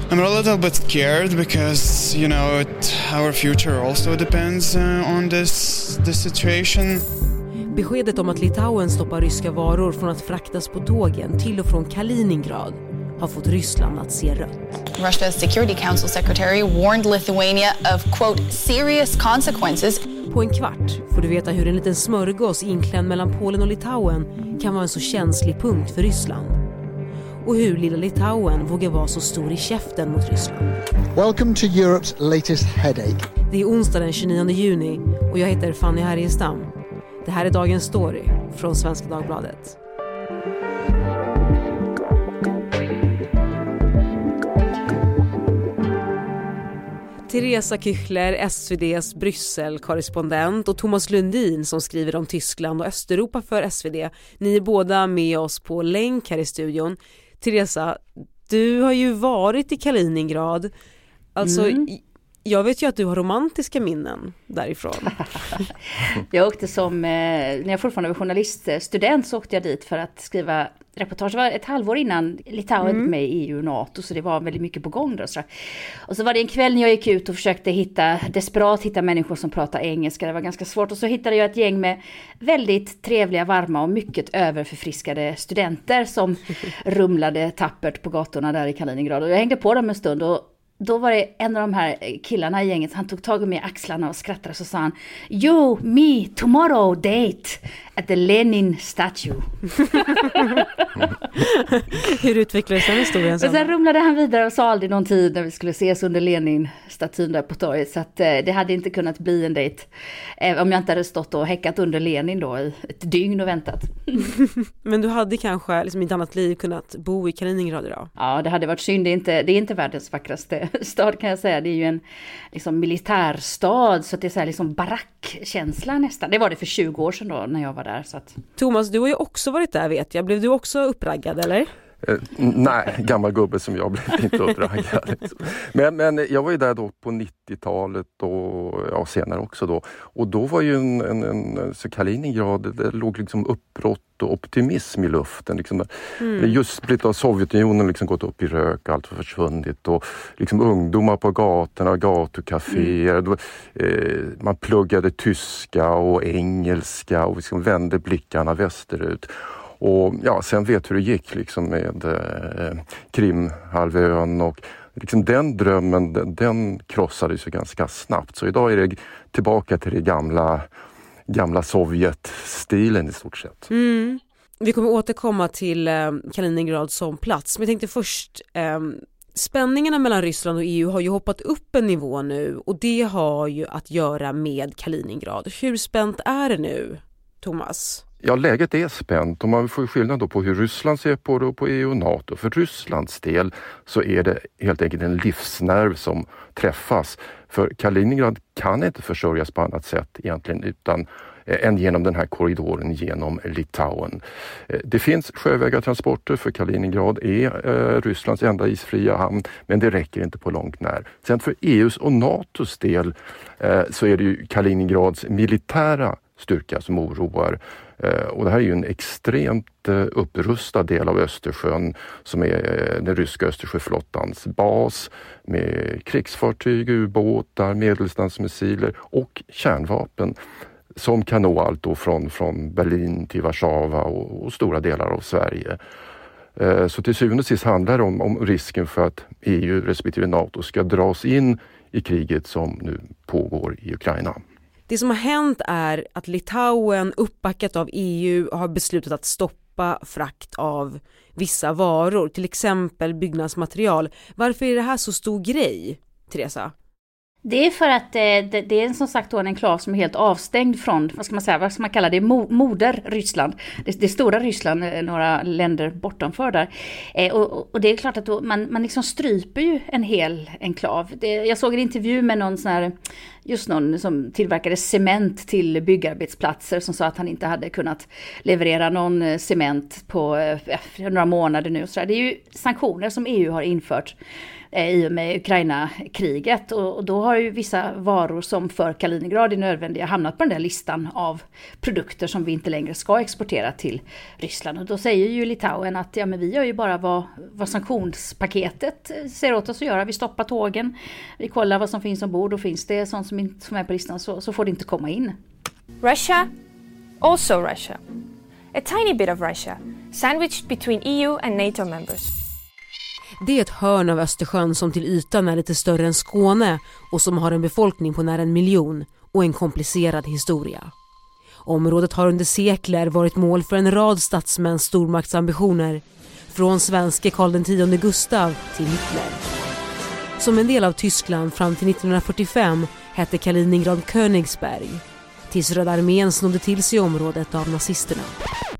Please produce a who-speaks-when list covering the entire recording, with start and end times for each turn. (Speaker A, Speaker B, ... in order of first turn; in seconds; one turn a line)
Speaker A: 0.1-7.0
Speaker B: 7.7-14.8
Speaker C: 15.1-19.8
Speaker B: 20.3-26.6
Speaker B: 27.4-30.7
Speaker D: 31.1-33.2
Speaker B: 33.5-36.7
Speaker B: 37.2-39.8
Speaker B: 47.3-60.7
Speaker B: 61.4-65.7
Speaker E: 61.4-61.9
Speaker E: 66.0-75.4
Speaker B: 72.8-73.1
Speaker E: 76.1-100.4
Speaker B: 101.9-103.7
Speaker E: 103.4-109.9
Speaker E: 110.4-114.2
Speaker B: 114.8-118.1
Speaker E: 118.2-122.0
Speaker E: 122.5-128.3
Speaker B: 128.6-131.7
Speaker F: 132.0-170.7
Speaker B: 146.2-146.6
Speaker F: 171.3-173.7
Speaker B: 173.7-188.0
Speaker F: 188.2-230.3
Speaker F: 230.9-235.8
Speaker F: 236.6-244.4
Speaker B: 244.9-256.7
Speaker E: 257.4-272.9
Speaker E: 273.4-284.1
Speaker E: 284.7-305.3
Speaker G: 306.0-306.5
Speaker G: 307.2-308.0
Speaker G: 308.7-312.3
Speaker B: 313.4-320.9
Speaker B: 321.6-329.4
Speaker B: 330.4-338.4